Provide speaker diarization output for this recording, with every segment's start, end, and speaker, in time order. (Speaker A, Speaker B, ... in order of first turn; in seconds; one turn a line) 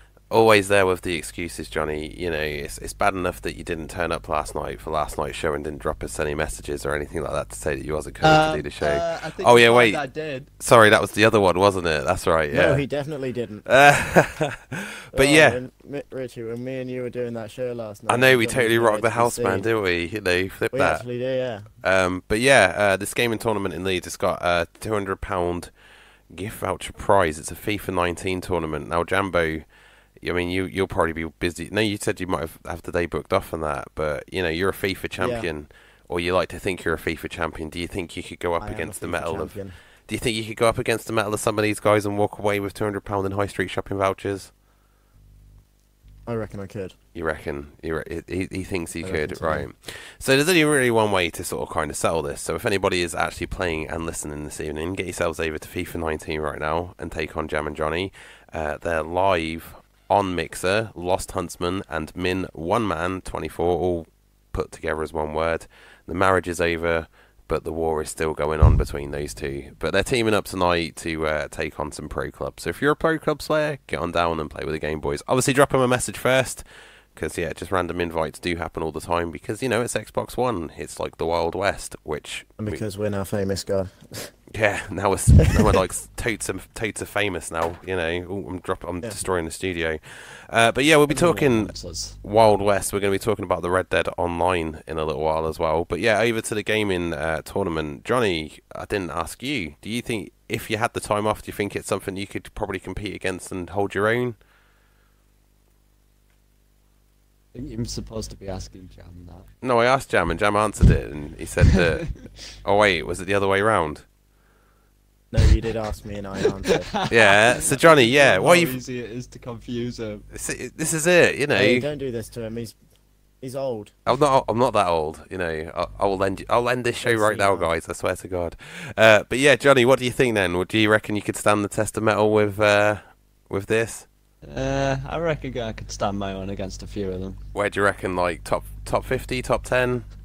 Speaker A: 0.3-10.0
Speaker B: 8.2-10.5
Speaker A: 10.6-12.9
Speaker C: 12.5-13.7
Speaker A: 13.7-15.6
Speaker C: 15.1-19.7
Speaker A: 18.1-21.1
Speaker C: 20.7-21.7
Speaker A: 21.8-25.7
Speaker A: 26.3-29.7
Speaker A: 30.2-44.5
Speaker C: 35.2-35.5
Speaker C: 38.6-39.8
Speaker C: 46.3-47.0
Speaker A: 47.1-76.6
Speaker B: 49.0-49.7
Speaker A: 77.2-82.8
Speaker C: 82.6-84.3
Speaker A: 84.5-104.4
Speaker B: 91.1-92.2
Speaker B: 107.5-109.5
Speaker A: 109.6-114.1
Speaker C: 115.3-116.9
Speaker B: 116.7-120.2
Speaker A: 117.1-118.8
Speaker A: 120.3-121.9
Speaker C: 121.5-122.8
Speaker C: 123.4-123.9
Speaker A: 124.1-134.1
Speaker C: 127.0-127.7
Speaker B: 134.5-137.4
Speaker A: 137.5-140.1